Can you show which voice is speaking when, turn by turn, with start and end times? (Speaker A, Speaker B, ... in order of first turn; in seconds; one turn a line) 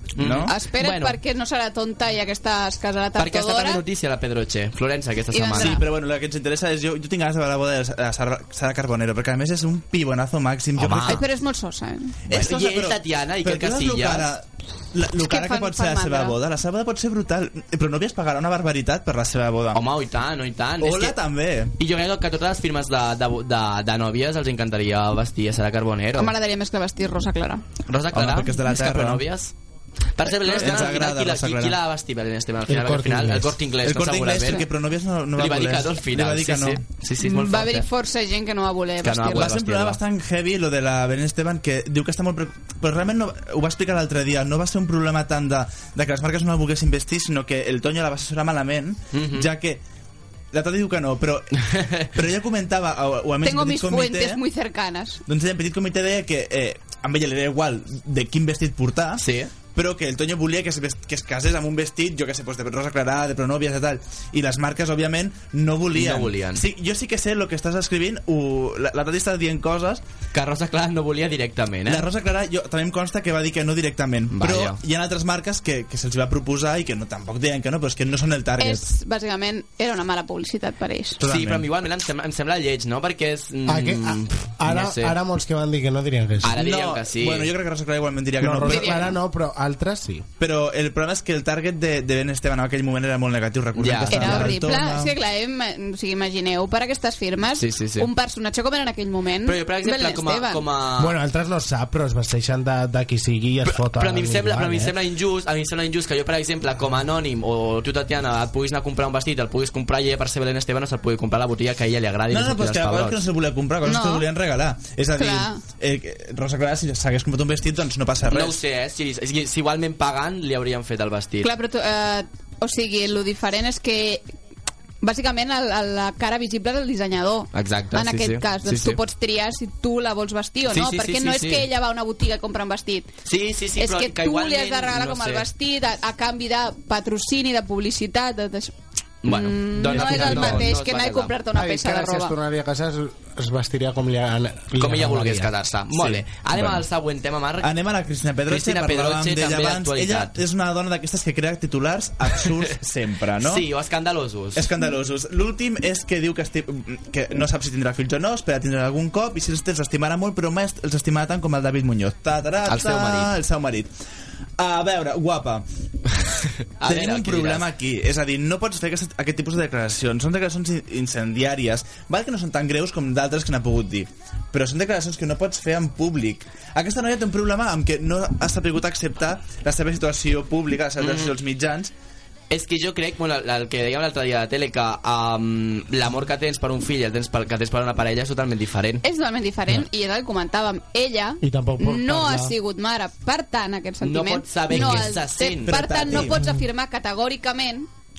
Speaker A: 0.2-1.2
Speaker B: 0.2-0.5
Speaker C: 0.4-3.8
Speaker A: 3.2-5.8
Speaker C: 5.3-5.9
Speaker B: 5.6-11.2
Speaker A: 10.8-11.2
Speaker C: 11.1-12.2
Speaker B: 12.3-19.8
Speaker A: 12.3-14.3
Speaker C: 15.2-16.4
Speaker A: 19.7-21.2
Speaker B: 20.8-21.7
Speaker A: 21.8-26.3
Speaker C: 26.2-27.6
Speaker A: 27.9-29.5
Speaker B: 28.1-29.2
Speaker A: 30.2-34.7
Speaker B: 30.3-31.8
Speaker D: 32.7-33.5
Speaker B: 33.9-36.8
Speaker A: 35.4-37.9
Speaker C: 37.2-39.5
Speaker A: 39.0-40.0
Speaker B: 39.3-49.8
Speaker A: 49.1-49.5
Speaker B: 50.5-51.5
Speaker A: 51.7-52.0
Speaker B: 52.1-54.4
Speaker C: 53.4-55.2
Speaker B: 55.3-70.0
Speaker A: 59.2-59.5
Speaker A: 65.9-66.7
Speaker A: 70.3-72.1
Speaker B: 71.9-78.8
Speaker A: 74.3-74.8
Speaker C: 78.6-81.2
Speaker B: 81.2-81.7
Speaker A: 81.2-85.2
Speaker D: 83.7-86.6
Speaker A: 86.4-87.5
Speaker B: 86.5-89.2
Speaker D: 88.4-90.3
Speaker C: 88.7-89.1
Speaker B: 90.4-95.1
Speaker A: 93.8-94.6
Speaker C: 94.0-100.6
Speaker A: 97.6-98.1
Speaker A: 99.5-101.2
Speaker D: 101.0-105.0
Speaker A: 103.7-113.2
Speaker B: 112.3-118.6
Speaker C: 113.8-114.3
Speaker C: 115.2-115.6
Speaker A: 118.3-121.5
Speaker C: 121.4-124.2
Speaker C: 125.0-133.1
Speaker A: 127.5-129.0
Speaker A: 130.7-131.7
Speaker A: 133.2-135.5
Speaker C: 133.8-138.7
Speaker A: 139.2-141.4
Speaker C: 139.3-142.3
Speaker D: 139.9-140.7
Speaker D: 141.5-145.5
Speaker A: 144.8-147.8
Speaker B: 146.0-146.8
Speaker B: 147.6-153.7
Speaker A: 148.5-150.4
Speaker A: 152.4-152.7
Speaker A: 153.4-154.7
Speaker B: 154.6-163.9
Speaker A: 162.7-163.4
Speaker B: 164.6-165.7
Speaker A: 166.8-167.7
Speaker B: 166.8-181.9
Speaker A: 181.0-181.4
Speaker A: 182.5-189.0
Speaker C: 189.0-197.9
Speaker D: 191.4-192.6
Speaker A: 194.0-196.3
Speaker B: 195.7-196.4